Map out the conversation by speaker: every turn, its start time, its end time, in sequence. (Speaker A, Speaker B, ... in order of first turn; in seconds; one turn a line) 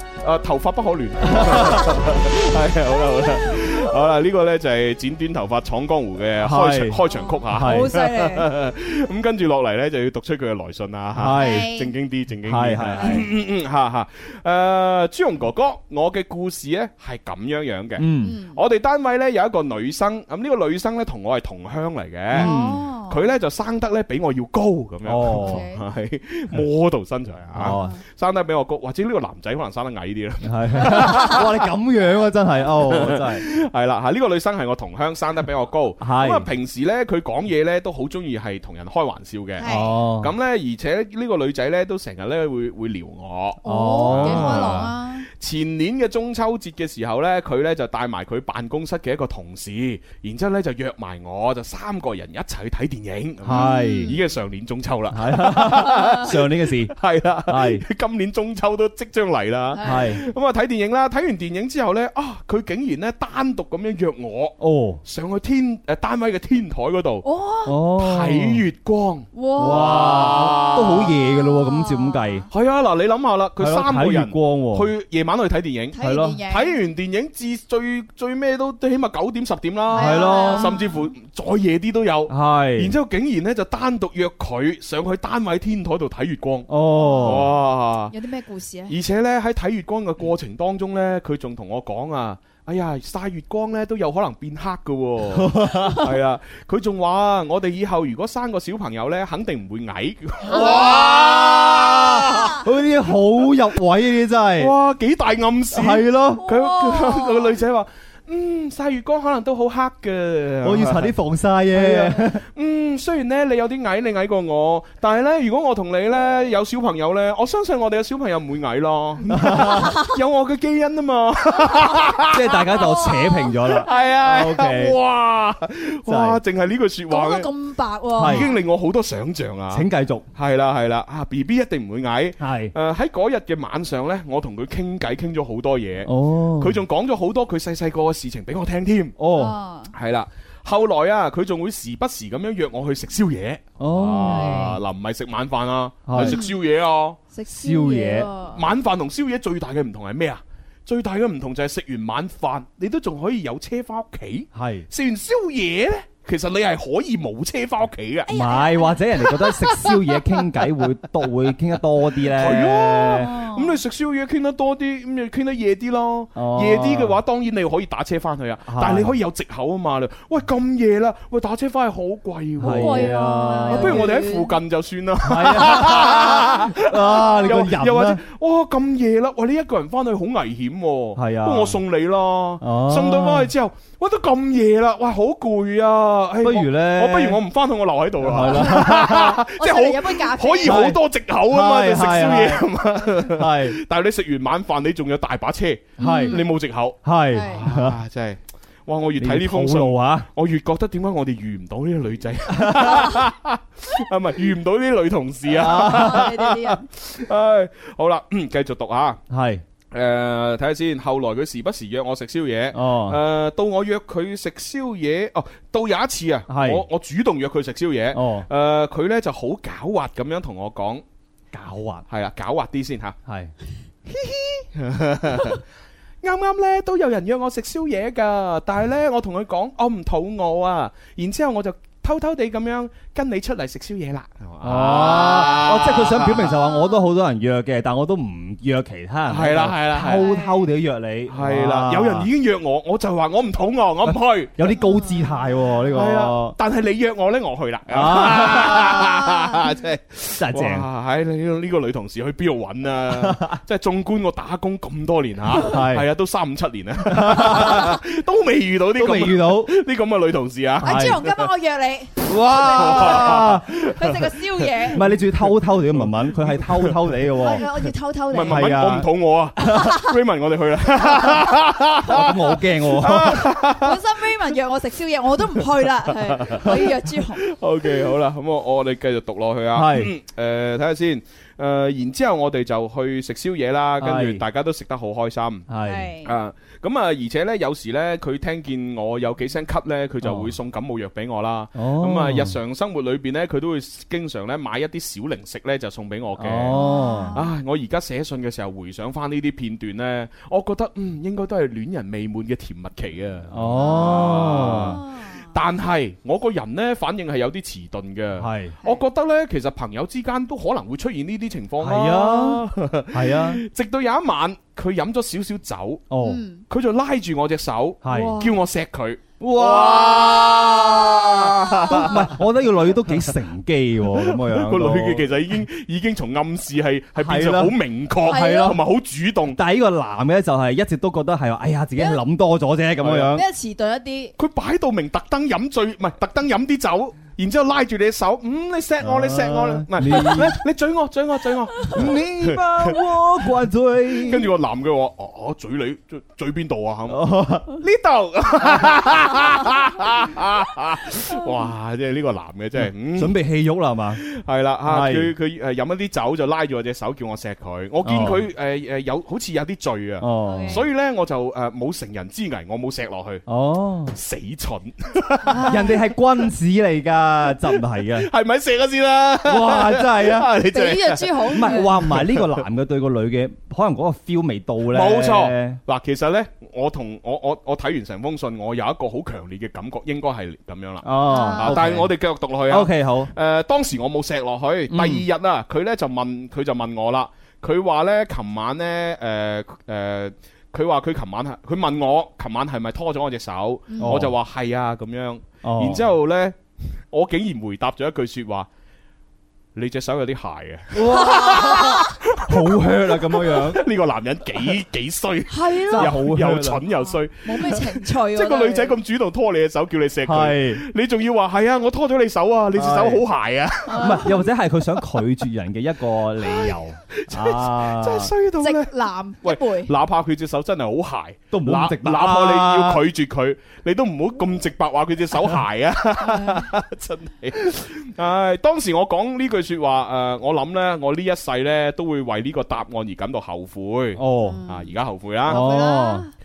Speaker A: 0.2-22.5
Speaker B: 1.4-1.8
Speaker B: 6.4-8.0
Speaker C: 7.1-8.5
Speaker B: 11.1-11.7
Speaker C: 11.3-11.9
Speaker B: 12.4-13.3
Speaker C: 13.0-13.2
Speaker B: 18.0-18.4
Speaker C: 18.2-18.6
Speaker B: 22.3-22.8
Speaker C: 22.3-23.2
Speaker A: 23.1-31.6
Speaker B: 25.0-25.6
Speaker C: 25.3-25.8
Speaker B: 27.5-27.9
Speaker C: 27.6-28.0
Speaker B: 30.4-33.4
Speaker A: 32.9-39.7
Speaker B: 36.0-36.5
Speaker C: 39.6-39.9
Speaker B: 39.6-40.3
Speaker A: 40.2-67.2
Speaker C: 43.6-45.3
Speaker B: 43.6-44.9
Speaker B: 53.4-54.2
Speaker C: 53.5-54.2
Speaker B: 55.1-56.9
Speaker C: 55.9-56.2
Speaker B: 57.5-57.8
Speaker C: 59.7-60.1
Speaker B: 59.8-60.2
Speaker B: 64.6-65.0
Speaker C: 67.2-67.8
Speaker B: 67.7-68.6
Speaker A: 68.0-71.1
Speaker C: 69.3-70.4
Speaker B: 69.6-72.5
Speaker C: 71.3-72.4
Speaker A: 72.5-86.7
Speaker B: 73.6-74.9
Speaker C: 75.9-76.8
Speaker B: 76.0-76.4
Speaker C: 79.9-81.0
Speaker B: 79.9-80.8
Speaker B: 82.3-82.9
Speaker B: 86.7-87.5
Speaker C: 87.0-87.5
Speaker A: 87.2-88.1
Speaker C: 88.1-89.0
Speaker A: 88.9-102.5
Speaker B: 95.3-96.0
Speaker C: 100.5-102.6
Speaker B: 100.6-100.9
Speaker B: 102.5-104.7
Speaker A: 104.6-111.1
Speaker B: 105.7-106.4
Speaker C: 106.4-107.5
Speaker B: 110.6-112.4
Speaker A: 111.7-122.4
Speaker B: 119.3-119.9
Speaker C: 119.6-120.1
Speaker B: 122.3-125.0
Speaker C: 122.7-123.5
Speaker A: 123.7-127.5
Speaker B: 126.1-126.4
Speaker C: 127.1-128.6
Speaker B: 128.1-128.5
Speaker A: 128.2-139.2
Speaker B: 129.7-130.2
Speaker B: 132.4-132.7
Speaker B: 136.0-136.8
Speaker B: 139.2-139.6
Speaker C: 139.3-139.9
Speaker A: 139.9-147.2
Speaker B: 143.8-144.8
Speaker C: 144.3-144.8
Speaker B: 146.1-146.4
Speaker C: 146.1-146.6
Speaker C: 147.3-148.6
Speaker B: 147.5-148.3
Speaker A: 148.5-158.3
Speaker B: 154.5-154.8
Speaker C: 158.3-159.9
Speaker B: 158.3-163.3
Speaker A: 162.3-173.2
Speaker C: 163.2-163.8
Speaker B: 166.3-167.2
Speaker B: 168.7-169.2
Speaker B: 172.6-174.1
Speaker C: 172.6-174.5
Speaker A: 173.7-209.2
Speaker B: 175.2-178.2
Speaker B: 181.2-181.8
Speaker B: 182.6-183.5
Speaker B: 186.4-187.4
Speaker B: 188.2-189.3
Speaker C: 188.4-190.8
Speaker B: 190.6-192.7
Speaker B: 193.2-193.8
Speaker B: 196.0-196.4
Speaker C: 196.0-196.4
Speaker B: 197.0-198.0
Speaker C: 197.3-197.6
Speaker B: 199.2-200.3
Speaker B: 202.6-202.9
Speaker B: 205.5-206.3
Speaker C: 205.7-206.8
Speaker B: 209.3-209.6
Speaker A: 209.9-221.0
Speaker B: 212.7-213.2
Speaker B: 216.5-216.8
Speaker B: 218.1-218.5
Speaker B: 221.5-222.0
Speaker A: 222.1-223.2
Speaker B: 223.3-223.5
Speaker A: 224.1-225.6
Speaker A: 226.2-236.5
Speaker B: 234.6-242.3
Speaker A: 239.3-240.3
Speaker C: 240.1-240.7
Speaker A: 241.3-244.7
Speaker B: 244.6-246.5
Speaker C: 244.8-245.3
Speaker A: 245.9-261.5
Speaker B: 247.9-249.1
Speaker B: 250.4-250.9
Speaker B: 253.1-253.5
Speaker B: 255.5-256.1
Speaker B: 257.1-258.0
Speaker B: 258.9-259.7
Speaker B: 260.8-261.2
Speaker C: 260.8-265.0
Speaker B: 262.3-263.7
Speaker A: 262.6-265.1
Speaker B: 264.9-267.7
Speaker A: 265.7-267.6
Speaker C: 267.4-268.8
Speaker A: 268.3-274.0
Speaker B: 268.4-269.1
Speaker C: 269.7-270.0
Speaker B: 272.1-273.5
Speaker C: 273.8-277.4
Speaker A: 276.2-276.9
Speaker A: 277.4-285.7
Speaker B: 279.7-280.1
Speaker B: 284.0-284.4
Speaker B: 285.7-286.1
Speaker C: 285.8-286.3
Speaker A: 286.2-296.8
Speaker B: 290.2-290.5
Speaker B: 291.7-292.6
Speaker B: 296.4-297.4
Speaker C: 296.7-297.5
Speaker A: 297.3-316.1
Speaker B: 303.5-305.0
Speaker C: 303.7-305.5
Speaker B: 308.4-308.7
Speaker B: 311.8-313.6
Speaker B: 316.1-316.4
Speaker C: 316.2-316.6
Speaker A: 316.7-322.3
Speaker B: 318.0-318.5
Speaker C: 318.1-318.5
Speaker B: 319.4-325.3
Speaker A: 324.1-329.6
Speaker B: 327.2-327.8
Speaker C: 328.2-328.8
Speaker B: 328.3-328.7
Speaker B: 329.5-333.4
Speaker A: 333.0-333.3
Speaker C: 333.3-334.3
Speaker A: 334.4-343.0
Speaker B: 339.0-340.6
Speaker B: 341.9-344.5
Speaker A: 344.3-353.4
Speaker B: 347.1-347.7
Speaker B: 352.8-354.2
Speaker A: 354.1-363.4
Speaker B: 354.8-355.3
Speaker B: 358.0-358.4
Speaker B: 360.2-360.8
Speaker C: 360.4-360.8
Speaker B: 363.5-364.1
Speaker A: 364.1-365.9
Speaker C: 365.5-365.9
Speaker B: 365.6-368.3
Speaker A: 367.6-372.6
Speaker B: 369.4-370.5
Speaker C: 370.7-371.9
Speaker B: 371.5-375.8
Speaker A: 374.9-396.6
Speaker B: 381.0-382.1
Speaker C: 381.3-381.8
Speaker B: 382.7-383.3
Speaker B: 384.9-385.2
Speaker C: 393.9-394.2
Speaker B: 394.0-394.3
Speaker B: 395.6-396.0
Speaker A: 397.1-398.7
Speaker A: 399.7-414.3
Speaker B: 400.9-403.8
Speaker C: 401.2-401.9
Speaker C: 405.5-406.1
Speaker B: 405.9-406.8
Speaker C: 407.4-408.9
Speaker B: 410.2-410.8
Speaker B: 412.7-413.2
Speaker C: 413.9-414.4
Speaker B: 413.9-418.3
Speaker A: 417.1-435.6
Speaker C: 418.6-419.9
Speaker B: 421.5-423.0
Speaker C: 426.2-426.7
Speaker B: 434.1-434.6
Speaker C: 434.4-434.9
Speaker B: 435.5-436.2
Speaker C: 435.5-436.3